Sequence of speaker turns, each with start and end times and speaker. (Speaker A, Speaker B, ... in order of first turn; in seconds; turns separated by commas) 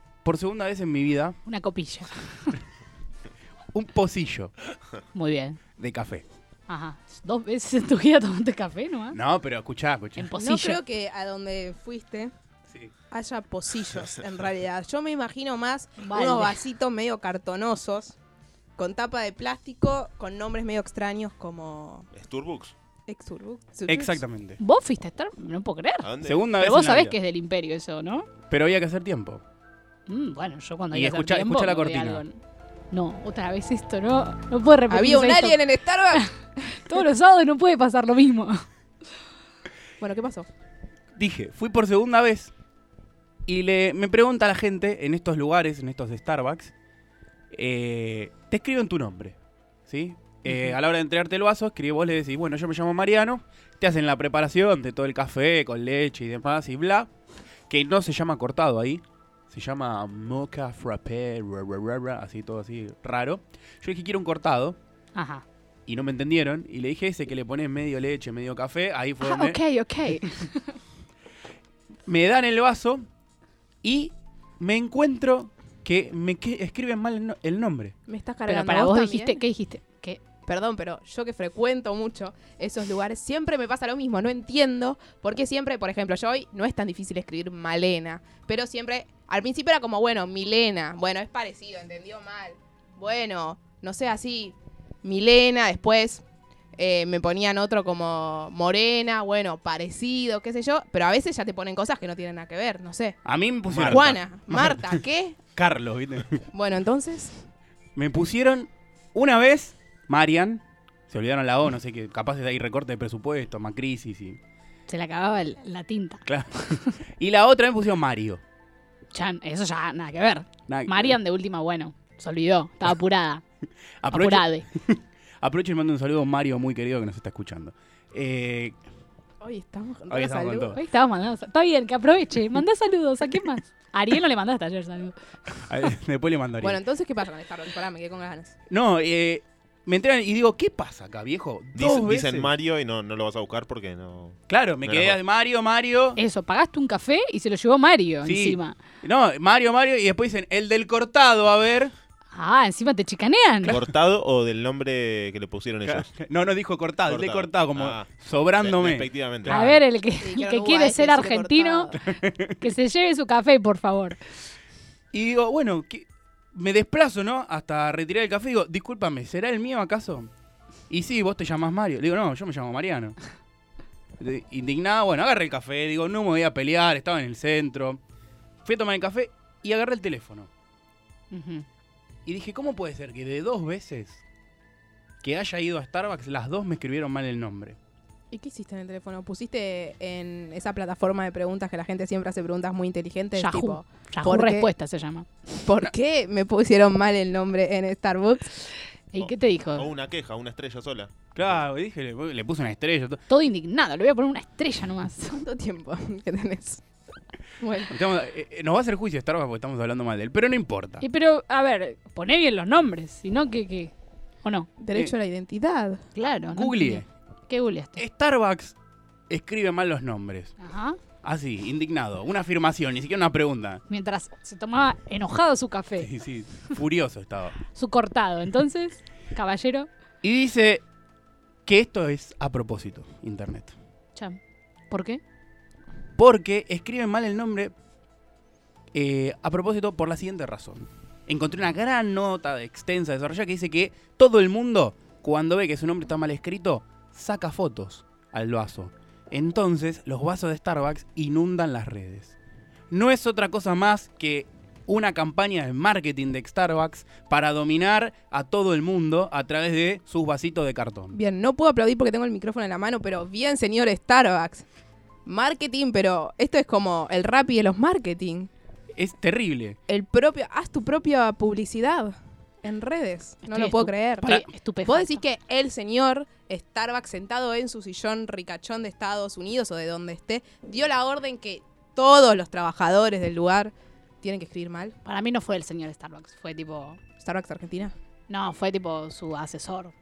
Speaker A: 0.2-1.4, Speaker B: 1.5-2.6, Speaker A: 3.7-4.5, Speaker B: 5.1-5.6, Speaker A: 5.8-6.2, Speaker B: 6.7-9.2, Speaker A: 9.1-10.3, Speaker B: 10.2-10.8, Speaker C: 10.4-12.3, Speaker C: 13.1-18.2, Speaker B: 16.0-16.6, Speaker C: 18.8-22.1, Speaker D: 22.1-22.8, Speaker C: 23.1-24.2, Speaker A: 23.9-24.6, Speaker B: 24.6-28.3, Speaker D: 26.0-26.5, Speaker A: 26.2-27.2, Speaker A: 28.5-29.4, Speaker B: 30.1-32.4, Speaker A: 30.9-32.2, Speaker B: 32.9-38.7, Speaker C: 34.9-36.2, Speaker C: 40.0-40.5, Speaker A: 41.1-42.5, Speaker A: 43.5-46.7, Speaker A: 47.5-57.1, Speaker A: 57.7-64.8, Speaker B: 65.1-65.4, Speaker A: 65.9-69.6, Speaker B: 69.2-70.7, Speaker A: 72.1-73.0, Speaker A: 73.8-77.9, Speaker C: 78.1-79.4, Speaker B: 78.5-80.2, Speaker C: 80.5-96.2, Speaker C: 96.7-103.2, Speaker A: 103.2-105.0, Speaker D: 103.7-104.2, Speaker C: 103.9-105.4, Speaker A: 105.5-106.4, Speaker C: 106.5-107.5, Speaker A: 108.0-114.4, Speaker B: 114.9-116.9, Speaker A: 116.2-118.4, Speaker B: 119.1-123.4, Speaker A: 120.7-121.2, Speaker A: 124.0-128.8, Speaker B: 124.1-124.7, Speaker C: 129.4-130.8, Speaker A: 130.1-130.8, Speaker B: 130.8-135.7, Speaker A: 135.7-136.8, Speaker C: 136.6-138.5, Speaker A: 138.7-142.5, Speaker D: 141.7-145.2, Speaker A: 144.5-146.2, Speaker B: 146.2-148.8, Speaker A: 148.2-151.9, Speaker B: 152.3-153.8, Speaker D: 153.7-156.2, Speaker A: 155.8-159.8, Speaker D: 157.1-159.6, Speaker B: 159.5-164.2, Speaker C: 160.2-161.9, Speaker A: 162.0-162.6, Speaker A: 165.1-170.3, Speaker A: 170.9-173.2, Speaker A: 174.2-178.0, Speaker A: 178.6-180.5, Speaker B: 181.3-181.7, Speaker A: 182.2-184.2, Speaker A: 185.2-187.8, Speaker C: 188.3-194.7, Speaker B: 193.3-195.3, Speaker C: 195.6-198.6, Speaker B: 199.1-199.9, Speaker D: 199.2-201.6, Speaker A: 201.3-203.2, Speaker B: 203.3-205.4, Speaker C: 205.3-206.8, Speaker C: 207.6-207.9, Speaker A: 207.9-211.0, Speaker B: 211.0-213.9, Speaker B: 214.4-214.7, Speaker C: 214.8-216.0, Speaker B: 216.1-218.0, Speaker A: 216.5-217.1, Speaker A: 218.0-218.8, Speaker A: 219.3-220.5, Speaker B: 220.6-221.0, Speaker A: 221.2-223.8, Speaker B: 223.9-226.1, Speaker A: 226.0-227.6, Speaker B: 227.7-229.9, Speaker A: 230.2-230.8, Speaker A: 231.7-233.8, Speaker B: 234.9-235.2, Speaker A: 236.2-237.7, Speaker A: 238.9-252.3, Speaker A: 252.9-261.2, Speaker C: 261.1-264.6, Speaker C: 265.2-268.5, Speaker A: 269.0-269.8, Speaker C: 269.9-285.0, Speaker B: 273.4-275.2, Speaker B: 285.1-287.0, Speaker C: 287.2-288.0, Speaker B: 288.3-289.9